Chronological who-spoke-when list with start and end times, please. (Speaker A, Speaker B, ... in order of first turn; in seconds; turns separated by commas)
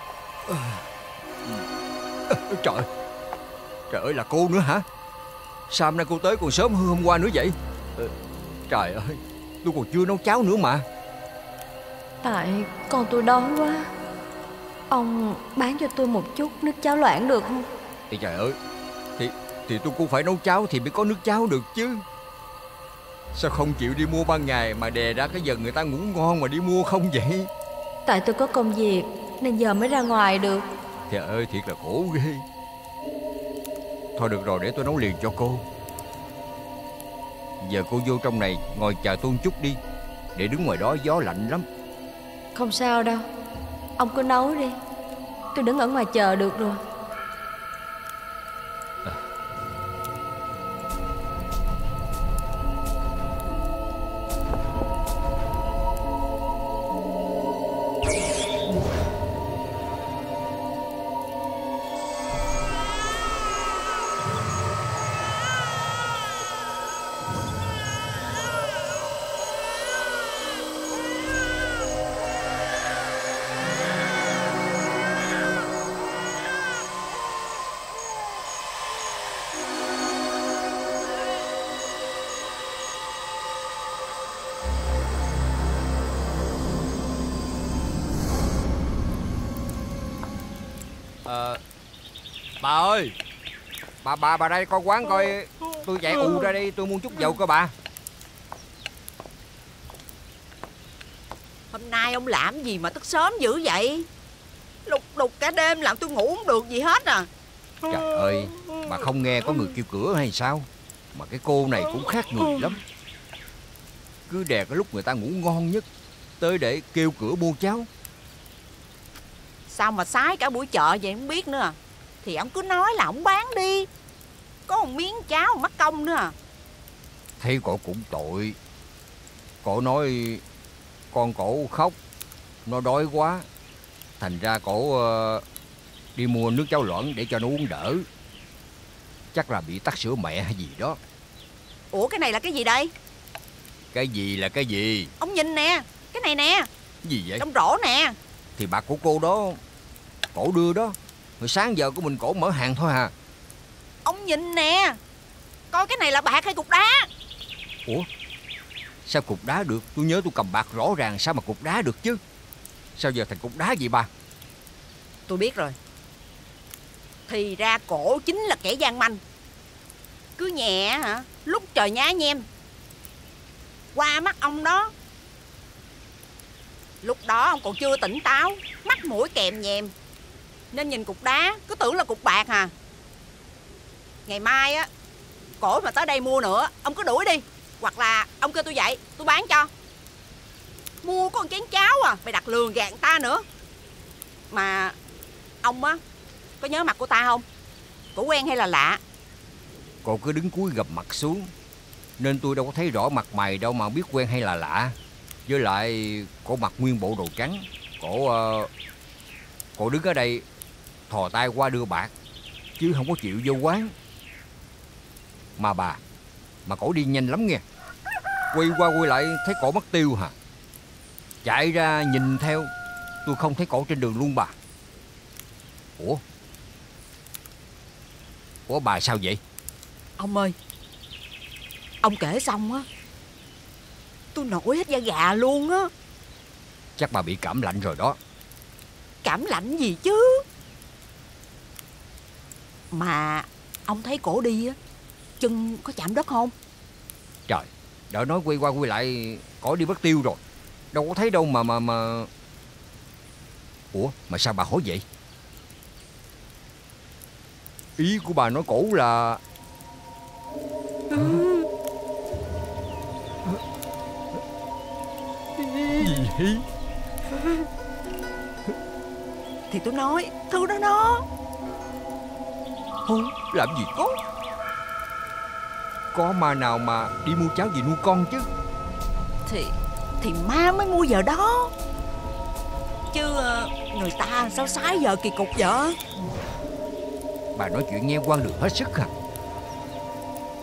Speaker A: 0.5-0.8, Speaker A: 2.3-2.9, Speaker A: 3.9-4.8, Speaker A: 5.7-8.1, Speaker A: 8.7-10.8, Speaker B: 12.2-13.9, Speaker B: 14.9-17.6, Speaker A: 18.1-18.6, Speaker A: 19.2-22.0, Speaker A: 23.3-27.5, Speaker B: 28.1-30.6, Speaker A: 31.1-32.4, Speaker A: 34.1-35.6, Speaker A: 37.6-39.8, Speaker A: 40.3-41.6, Speaker B: 42.5-43.2, Speaker B: 44.0-44.8, Speaker B: 45.5-46.8, Speaker A: 91.2-91.6, Speaker A: 92.6-93.1, Speaker A: 94.0-97.7, Speaker C: 101.7-104.1, Speaker C: 104.8-107.3, Speaker A: 107.8-112.8, Speaker A: 114.3-115.8, Speaker A: 116.4-117.9, Speaker C: 119.7-123.9, Speaker C: 124.7-126.3, Speaker A: 127.4-128.6, Speaker A: 129.6-130.4, Speaker A: 131.1-131.9, Speaker A: 132.7-133.4, Speaker A: 134.2-135.4, Speaker A: 136.2-138.1, Speaker A: 139.3-141.0, Speaker C: 141.9-142.9, Speaker A: 143.9-145.1, Speaker C: 145.2-146.7, Speaker A: 147.0-147.4, Speaker C: 147.4-148.1, Speaker A: 148.6-149.6, Speaker A: 150.3-153.1, Speaker C: 154.0-155.0, Speaker C: 155.7-157.1, Speaker A: 159.0-162.2, Speaker A: 162.9-164.1, Speaker C: 165.3-165.8, Speaker C: 167.3-169.2, Speaker C: 170.4-172.4, Speaker C: 173.9-174.9, Speaker C: 177.0-179.9, Speaker C: 180.7-182.7, Speaker C: 184.2-184.9, Speaker C: 185.6-189.7, Speaker C: 191.0-193.4, Speaker C: 194.5-194.9, Speaker C: 195.6-196.0, Speaker C: 196.6-197.4, Speaker C: 198.1-199.0, Speaker A: 200.0-201.5, Speaker A: 202.2-204.9, Speaker A: 205.4-208.7, Speaker A: 209.8-210.4, Speaker A: 211.1-212.1, Speaker A: 212.8-213.9, Speaker A: 215.6-216.0, Speaker A: 216.6-217.6, Speaker A: 218.5-220.3, Speaker A: 221.4-222.7, Speaker A: 223.2-224.5, Speaker A: 228.7-229.4, Speaker C: 230.2-230.5, Speaker C: 232.0-232.8, Speaker C: 234.3-235.9, Speaker A: 237.0-238.2, Speaker C: 239.2-240.4, Speaker C: 242.9-244.8, Speaker C: 245.4-246.5, Speaker A: 247.5-250.4, Speaker A: 250.9-252.3, Speaker A: 253.9-255.0, Speaker A: 258.0-259.4, Speaker A: 261.1-261.4, Speaker A: 265.6-266.6, Speaker C: 269.7-271.2, Speaker A: 273.1-274.1, Speaker A: 276.1-278.5, Speaker C: 279.4-281.7, Speaker C: 283.1-286.0, Speaker A: 287.5-289.1